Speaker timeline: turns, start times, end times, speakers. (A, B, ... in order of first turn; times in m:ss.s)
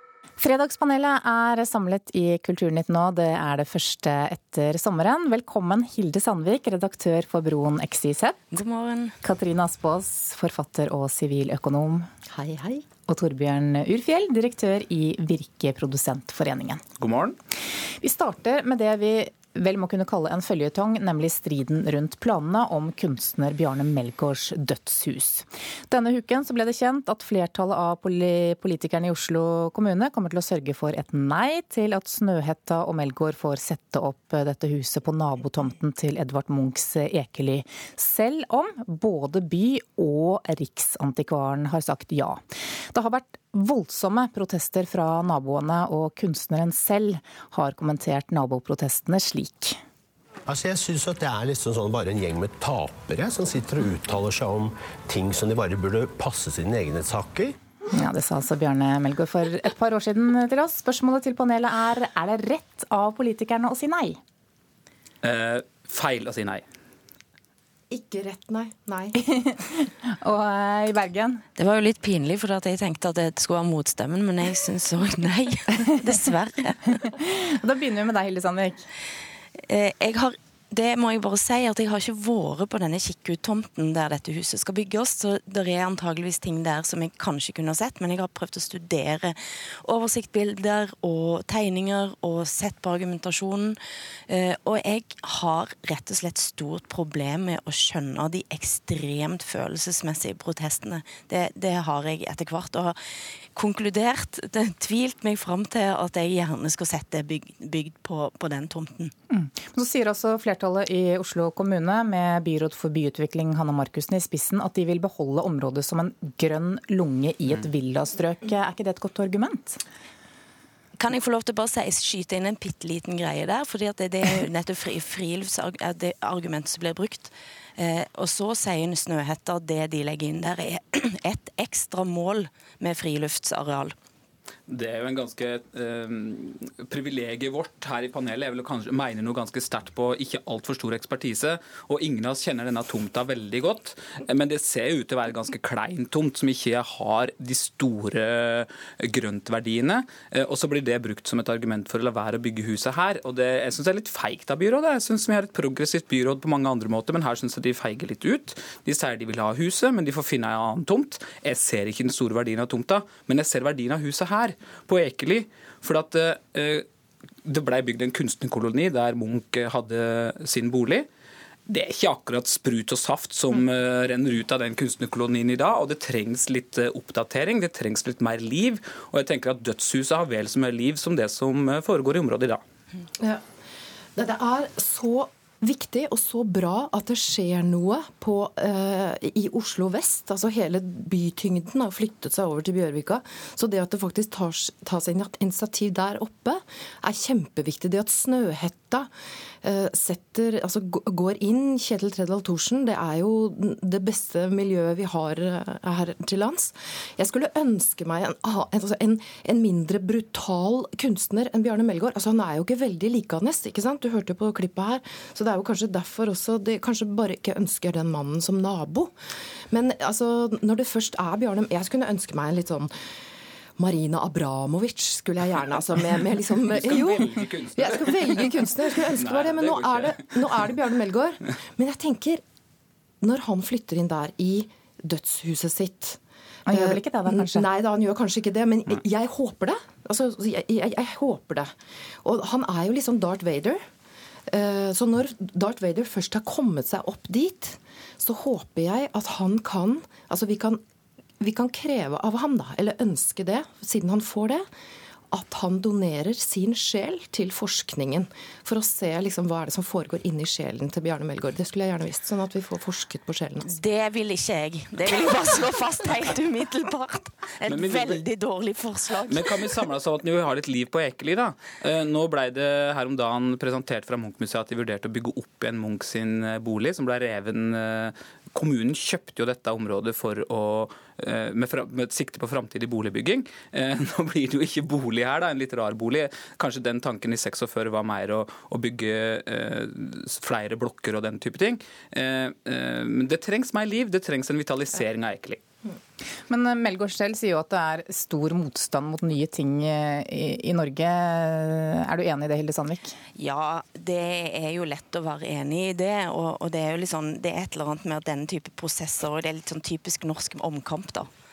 0:00.4-0:08.4 A
0:08.5-0:09.2 B
0:09.2-0:12.1 A
0:12.3-0:12.8 C
0:13.1-0:16.8 A
0:17.0-0:17.4 D
0:18.0-0:49.8 A
0:50.5-0:57.6 E
0:57.9-1:04.2 A
1:05.2-1:06.6 D
1:07.9-1:09.2 C
1:09.3-1:11.4 A
1:11.6-1:17.0 B
1:17.0-1:18.9 A
1:19.7-1:43.0 B
1:43.6-1:49.1 B
1:49.3-1:59.8 A
2:01.0-2:13.9 B
2:14.7-2:46.8 D
2:47.4-2:51.1 D
2:51.7-3:02.6 D
3:04.2-3:19.1 C
3:19.6-3:39.1 C
3:39.7-3:42.9 C
3:43.8-3:52.4 C
3:46.7-3:50.6 D
3:53.2-3:56.2 C
3:56.7-3:57.7 A
3:56.7-4:01.7 C
4:02.2-4:03.8 C
4:04.5-4:10.8 C
4:11.4-4:14.6 C
4:15.3-4:23.7 C
4:23.6-4:29.7 B
4:27.7-4:28.2 D
4:29.3-4:55.6 D
4:56.5-5:03.2 A
5:03.4-5:11.3 B